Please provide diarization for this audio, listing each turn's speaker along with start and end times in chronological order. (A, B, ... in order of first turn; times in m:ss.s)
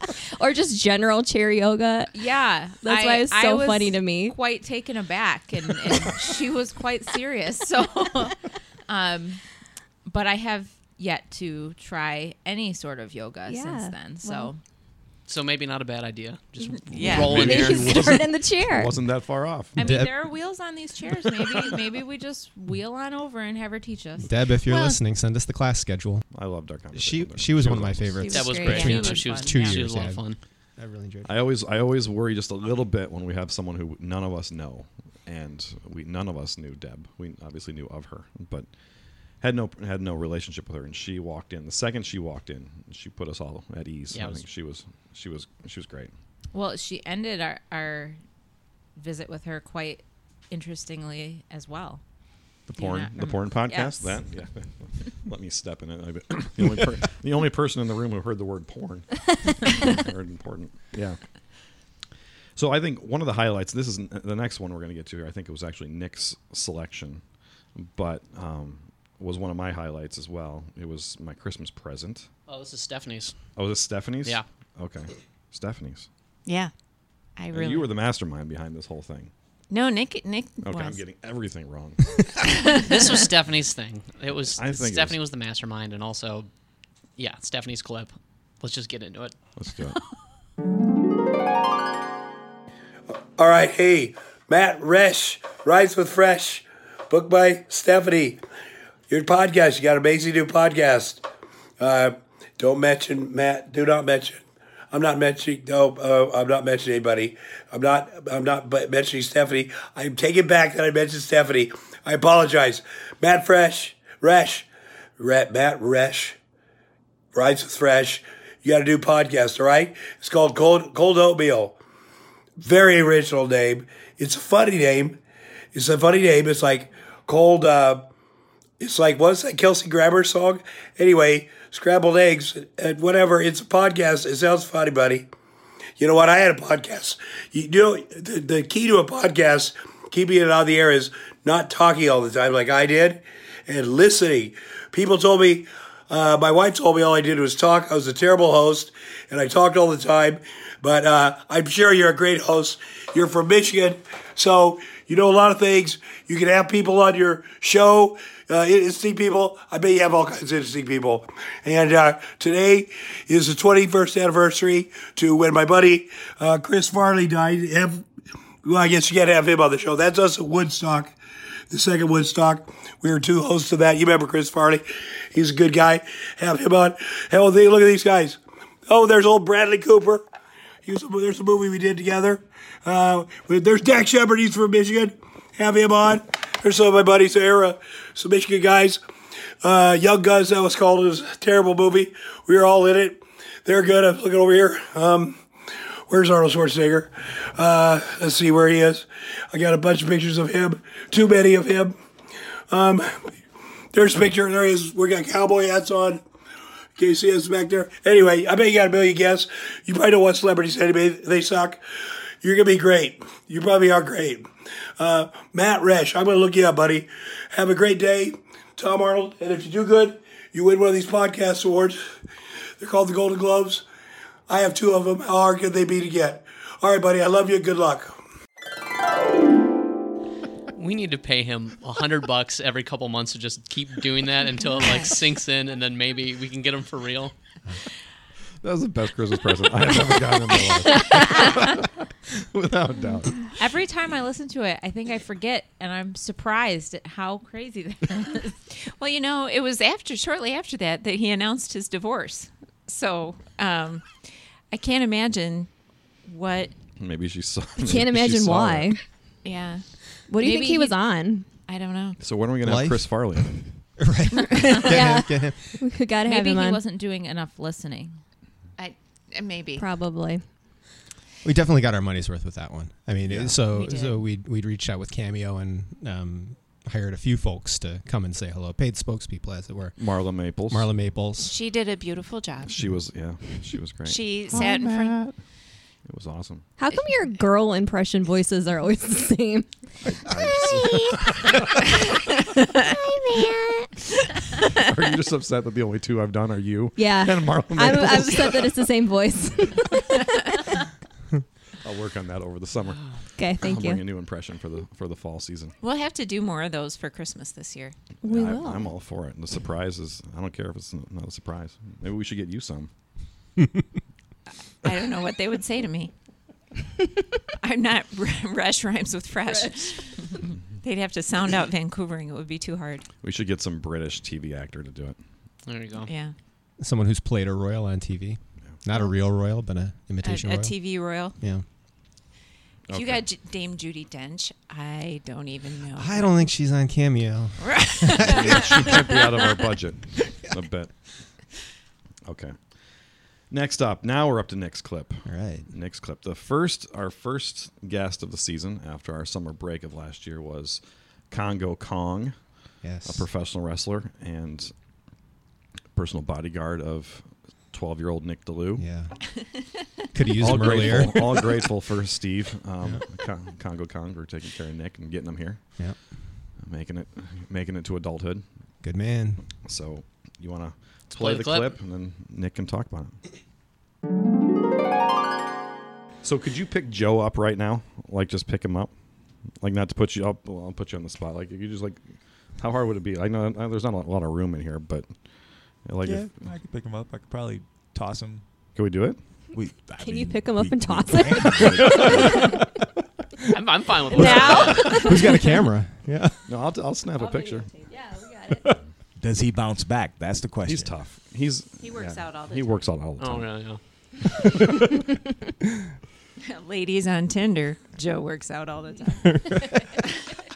0:00.4-0:02.2 A
0:02.1-0:08.4 B
0:02.8-0:04.4 A
0:08.9-0:09.4 B
0:10.1-0:14.6 B
0:13.5-0:14.5 A
0:15.3-0:18.0 C
0:16.9-0:17.6 D
0:17.1-0:19.0 A
0:17.1-0:19.8 E
0:19.8-0:20.3 F
0:19.8-0:24.3 B
0:24.2-0:26.3 F
0:26.3-0:28.2 E
0:26.9-0:31.4 F
0:28.2-0:29.7 B
0:28.3-0:30.4 C
0:28.7-0:29.5 D
0:31.2-0:38.7 E
0:39.4-0:46.1 E
0:44.1-0:44.4 C
0:46.5-0:48.2 B
0:49.0-0:52.0 B
0:52.7-1:01.2 E
0:52.8-0:54.2 B
1:02.6-1:07.2 E
1:07.8-1:12.3 E
1:12.5-1:13.4 C
1:13.6-1:16.1 E
1:16.5-1:16.7 D
1:17.4-1:17.9 D
1:17.5-1:19.3 E
1:19.7-1:21.0 D
1:20.6-1:22.4 E
1:22.7-1:26.5 C
1:24.5-1:25.2 E
1:27.2-1:29.4 C
1:29.6-1:30.0 E
1:33.4-1:38.4 G
1:39.1-1:41.2 G
1:41.8-1:54.7 G
1:55.2-1:56.4 G
1:57.3-2:01.8 G
2:02.6-2:05.2 G
2:05.7-2:08.1 G
2:08.8-2:15.3 G
2:16.0-2:48.0 G
2:48.6-2:51.2 G
2:51.7-3:00.2 G
3:00.9-3:09.0 G
3:09.6-3:15.4 G
3:16.1-3:22.0 G
3:22.7-3:23.2 G
3:23.9-3:26.2 G
3:27.0-3:31.8 G
3:32.4-3:34.5 G
3:35.0-3:42.0 G
3:42.8-3:43.8 G
3:44.5-3:48.1 G
3:50.8-3:57.3 C
3:54.8-3:55.1 D
3:58.6-4:03.4 E
4:03.6-4:08.5 B
4:08.8-4:15.7 D
4:16.3-4:16.7 D
4:17.0-4:19.0 E
4:17.8-4:19.0 A
4:19.4-4:19.8 D
4:20.3-4:21.5 A
4:20.4-4:21.0 B
4:21.7-4:22.2 D
4:22.2-4:23.7 E
4:22.6-4:25.9 F
4:24.7-4:26.8 A
4:26.2-4:28.2 B
4:28.8-4:29.8 D
4:29.8-4:30.5 A
4:31.4-4:40.1 F
4:33.3-4:33.6 E
4:33.7-4:34.1 B
4:33.8-4:34.1 D
4:40.0-4:40.9 E
4:40.7-4:41.6 F
4:41.4-4:42.8 D
4:42.6-4:45.4 E
4:44.0-4:45.2 D
4:46.1-4:46.7 E
4:46.8-4:49.7 A
4:50.0-4:51.8 E
4:50.3-4:51.6 A
4:52.9-4:53.9 A
4:54.8-4:58.7 E
4:57.0-5:00.8 A
5:01.8-5:05.8 E
5:03.4-5:04.0 A
5:05.8-5:08.0 D
5:08.2-5:08.9 A
5:08.2-5:12.9 E
5:14.8-5:16.1 D
5:17.6-5:23.0 D
5:23.2-5:25.2 E
5:25.7-5:26.1 C
5:26.1-5:26.3 D
5:26.8-5:31.6 F
5:30.2-5:31.4 D
5:32.9-5:33.2 E
5:32.9-5:36.4 D
5:36.0-5:39.0 F
5:37.6-5:38.9 D
5:38.2-5:40.9 E
5:42.2-5:42.6 E
5:43.5-5:52.4 E
5:45.3-5:45.7 F
5:52.8-5:53.3 F
5:53.0-5:54.7 E
5:56.0-5:58.9 E
5:58.8-5:59.2 F
6:00.1-6:01.5 F
6:00.4-6:05.7 E
6:05.8-6:06.2 F
6:06.6-6:08.4 E
6:08.8-6:09.4 F
6:09.6-6:13.2 E
6:11.2-6:11.7 C
6:16.2-6:18.9 E
6:19.6-6:22.0 E
6:22.6-6:25.1 E
6:25.8-6:26.4 E
6:26.0-6:28.4 H
6:28.8-6:29.2 E
6:29.5-6:32.5 H
6:30.0-6:32.6 A
6:31.7-6:32.4 E
6:33.5-6:35.1 C
6:34.1-6:36.4 F
6:34.2-6:35.6 A
6:36.5-6:37.7 E
6:37.9-6:38.6 A
6:39.2-6:41.0 H
6:40.6-6:43.5 E
6:41.8-6:42.9 B
6:43.2-6:43.8 C
6:46.5-6:49.3 D
6:49.3-6:49.9 F